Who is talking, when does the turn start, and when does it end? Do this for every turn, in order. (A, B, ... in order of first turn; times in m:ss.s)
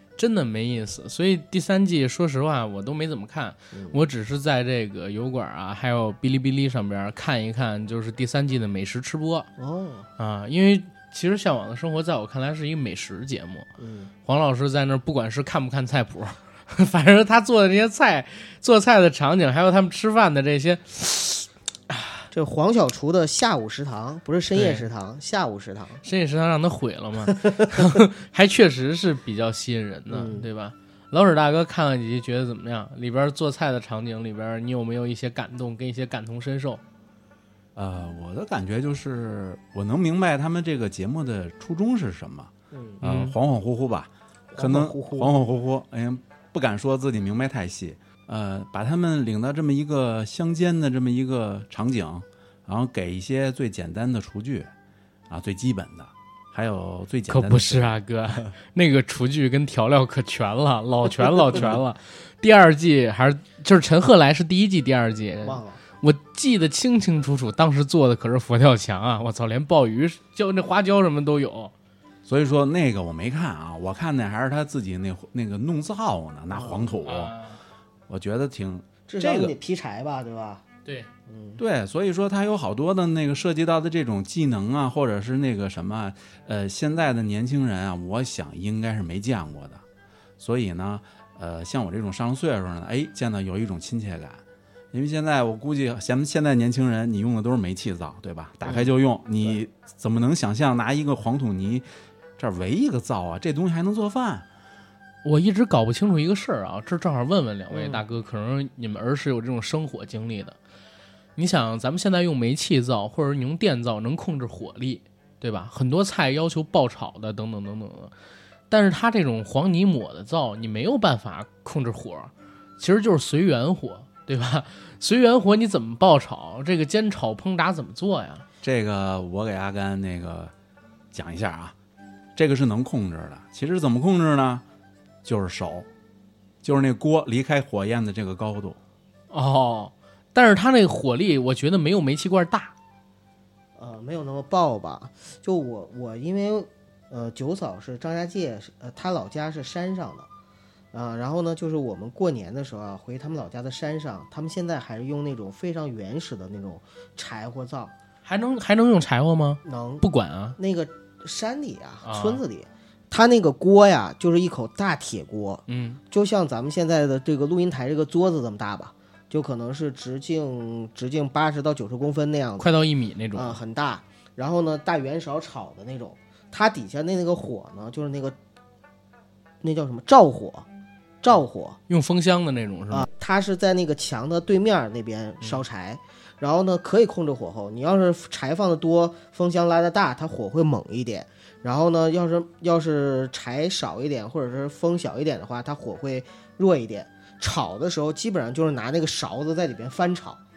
0:00.2-0:09.5 A
0:03.7-0:04.0 B
0:09.6-0:10.1 B
0:10.2-0:13.7 A
0:13.8-0:14.1 B
0:14.2-0:22.2 A
0:22.3-0:26.0 B
0:24.6-0:24.8 A
0:26.0-0:36.8 A
0:27.3-0:28.0 B
0:30.1-0:30.5 B
0:37.8-0:54.7 C
0:42.7-0:43.0 B
0:43.0-0:43.4 A
0:44.5-0:45.3 B
0:55.3-0:58.5 C
0:57.3-1:11.7 A
1:01.5-1:01.8 C
1:05.4-1:05.8 B
1:12.3-1:17.3 C
1:16.5-1:17.0 B
1:17.0-1:17.6 A
1:18.1-1:19.5 C
1:19.1-1:20.6 B
1:20.8-1:21.1 A
1:21.3-1:21.6 B
1:21.6-1:29.8 C
1:30.4-1:34.4 C
1:34.9-1:41.9 C
1:38.6-1:39.6 B
1:42.4-1:44.4 C
1:45.2-1:50.6 A
1:47.7-1:48.0 B
1:51.4-1:58.1 A
1:58.7-2:08.4 A
2:08.6-2:10.5 C
2:11.1-2:11.8 C
2:12.4-2:14.6 C
2:15.2-2:15.9 C
2:16.6-2:18.8 C
2:19.3-2:22.7 A
2:23.8-2:30.3 B
2:30.9-2:37.9 B
2:38.2-2:40.6 A
2:39.6-2:40.1 B
2:40.6-2:52.7 B
2:42.0-2:42.4 A
2:45.7-2:46.0 A
2:52.6-2:53.6 A
2:53.3-2:58.4 B
2:59.6-3:00.7 B
3:01.2-3:01.8 B
3:01.9-3:03.1 A
3:02.9-3:20.4 B